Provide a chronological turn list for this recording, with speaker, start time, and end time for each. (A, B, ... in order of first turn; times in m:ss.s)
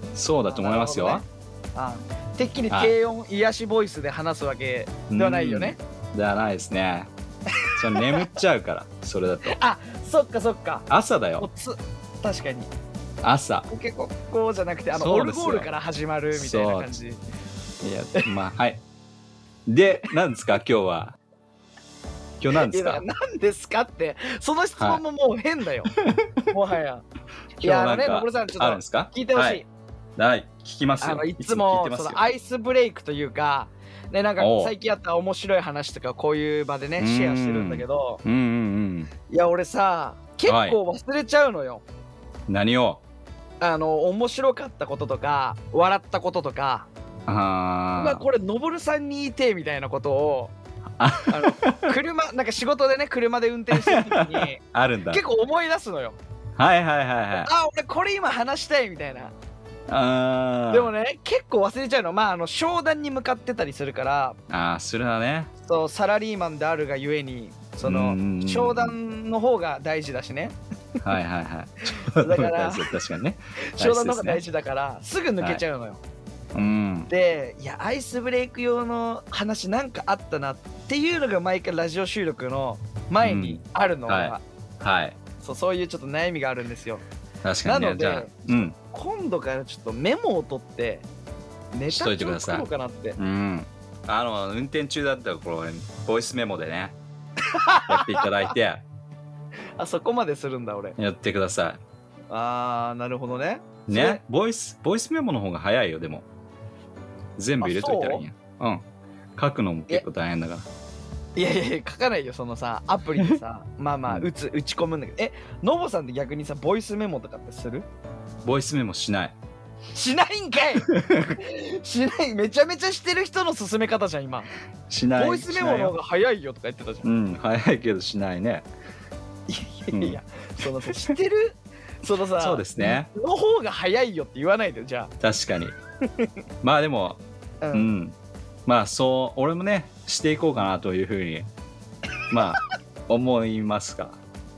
0:00.1-0:01.2 A
0:00.4-0:05.8 B
0:05.1-0:07.1 A
0:07.6-0:08.3 B
0:07.7-0:09.6 A
0:09.4-0:10.9 B
0:10.9-0:11.5 A
0:11.4-0:12.7 B
0:13.2-0:13.7 A
0:13.7-0:17.2 B
0:14.9-0:15.7 A
0:16.3-0:17.0 A
0:17.8-0:18.8 A
0:19.7-0:21.2 A
0:22.4-0:23.0 A
0:22.5-0:25.9 B
0:25.9-0:26.4 A
0:26.5-0:27.0 B
0:27.6-0:29.7 B
0:27.6-0:29.6 A
0:30.2-0:32.2 A
0:31.0-0:38.2 B
0:34.4-0:34.7 A
0:37.0-0:39.1 A
0:39.3-0:41.8 B
0:40.5-0:40.8 A
0:42.5-0:43.0 A
0:43.6-0:46.9 B
0:47.3-0:48.2 A
0:48.0-0:50.5 B
0:51.0-0:51.9 A
0:51.3-0:56.2 B
0:53.7-0:55.2 A
0:56.6-0:57.5 A
0:57.4-0:59.3 B
0:59.9-1:00.9 A
1:00.7-1:04.4 B
1:04.5-1:05.5 A
1:05.6-1:10.6 B
1:07.8-1:09.0 A
1:11.0-1:14.4 A
1:11.9-1:13.0 B
1:13.7-1:16.0 B
1:16.5-1:17.1 A
1:17.1-1:24.4 B
1:23.2-1:25.2 A
1:25.4-1:27.0 B
1:27.4-1:28.8 A
1:27.6-1:31.1 B
1:31.7-1:33.2 B
1:31.9-1:32.6 A
1:33.2-1:37.0 A
1:37.4-1:38.5 B
1:37.9-1:38.8 A
1:39.8-1:41.0 B
1:41.0-1:41.8 A
1:42.3-1:44.2 B
1:43.9-1:46.3 A
1:47.4-1:48.8 A
1:47.6-1:48.2 B
1:49.4-1:50.7 A
1:51.4-1:57.9 B
1:58.4-1:59.4 A
1:59.9-2:04.5 B
2:00.8-2:01.4 A
2:04.9-2:06.0 A
2:05.2-2:07.1 B
2:07.0-2:08.7 A
2:09.5-2:15.1 B
2:09.9-2:10.2 A
2:12.4-2:13.1 A
2:15.2-2:15.8 A
2:16.6-2:17.2 A
2:17.6-2:17.9 B
2:17.7-2:18.2 A
2:18.7-2:21.5 A
2:22.3-2:24.2 A